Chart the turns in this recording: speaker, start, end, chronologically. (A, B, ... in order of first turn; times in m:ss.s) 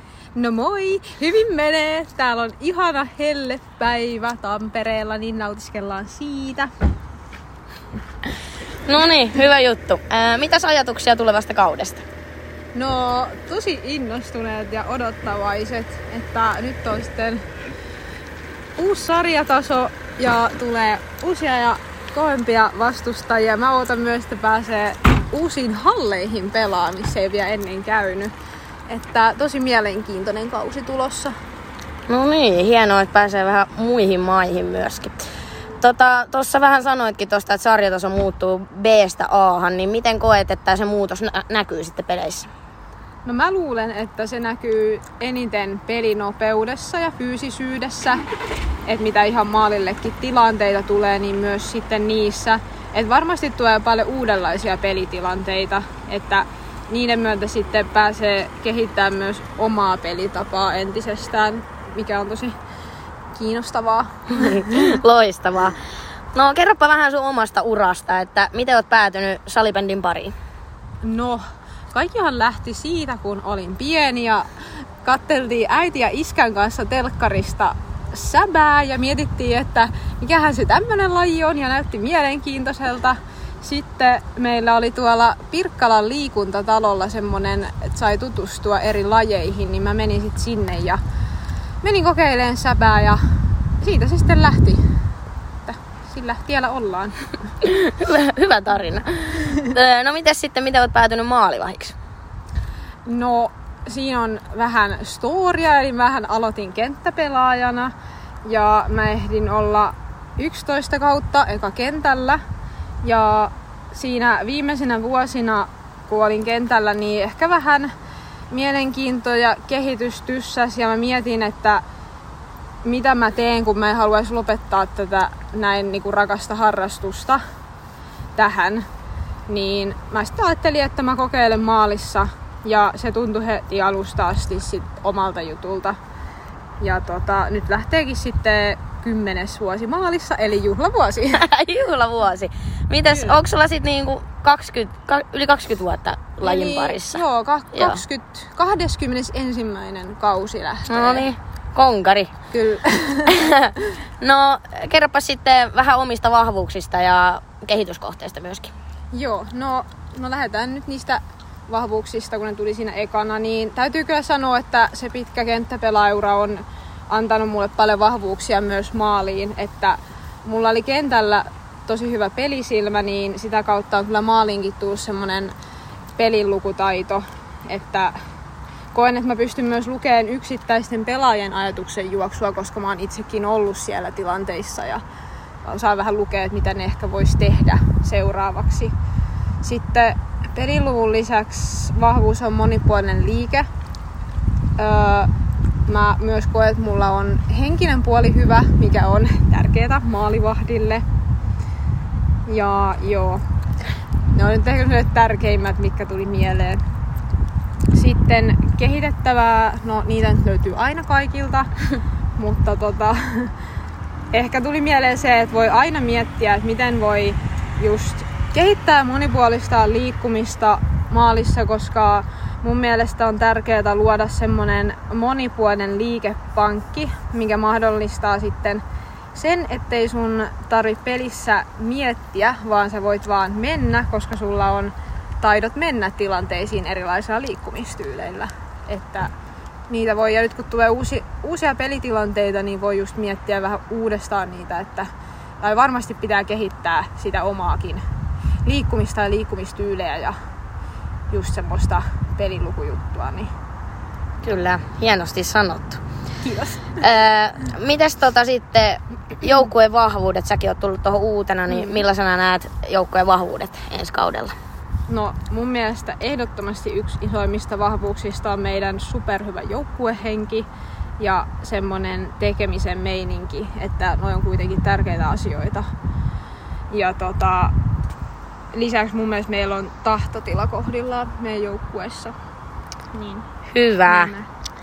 0:00.4-0:06.7 A
0:08.9-0:12.0 B
0:12.7-0:17.4 A
0:18.8-0:28.3 A
0:28.9-0:31.3 A
0:32.1-0:35.3 B
0:35.8-0:42.5 B
0:43.2-0:48.2 A
0:48.8-1:02.6 A
1:03.3-1:05.0 A
1:04.4-1:05.8 B
1:06.3-1:10.3 B
1:11.0-1:14.5 A
1:15.0-1:31.0 A
1:31.8-1:33.2 A
1:33.8-1:34.8 A
1:35.6-1:37.3 A
1:37.6-1:41.9 B
1:43.0-1:47.9 A
1:48.4-1:52.4 A
1:53.0-1:57.9 A
1:58.5-2:01.8 A
2:02.8-2:07.4 A
2:08.4-2:08.8 A
2:09.5-2:16.0 A
2:16.8-2:21.4 A
2:21.3-2:27.2 B
2:23.1-2:23.4 A
2:26.4-2:31.2 A
2:27.7-2:28.0 B
2:30.9-2:32.3 B
2:32.5-2:33.4 A
2:33.3-2:38.7 B
2:39.1-2:55.5 A
2:56.2-2:58.1 A
2:58.9-3:05.0 A
3:05.6-3:08.9 A
3:09.6-3:13.7 A
3:14.8-3:15.3 A
3:15.9-3:21.0 A
3:22.5-3:23.4 A
3:24.3-3:26.8 A
3:27.9-3:31.7 A
3:32.4-3:33.5 A
3:34.3-3:48.8 A
3:49.3-3:59.3 A
3:59.9-4:05.1 A
4:05.6-4:08.0 A
4:08.6-4:10.3 A
4:11.3-4:13.5 A
4:14.4-4:16.0 B
4:16.4-4:17.0 A
4:17.0-4:24.5 B
4:25.1-4:30.7 A
4:31.2-4:35.9 A
4:36.9-4:37.7 A
4:38.7-4:42.3 A
4:43.1-4:43.5 A
4:43.7-4:44.3 B
4:44.0-4:44.5 A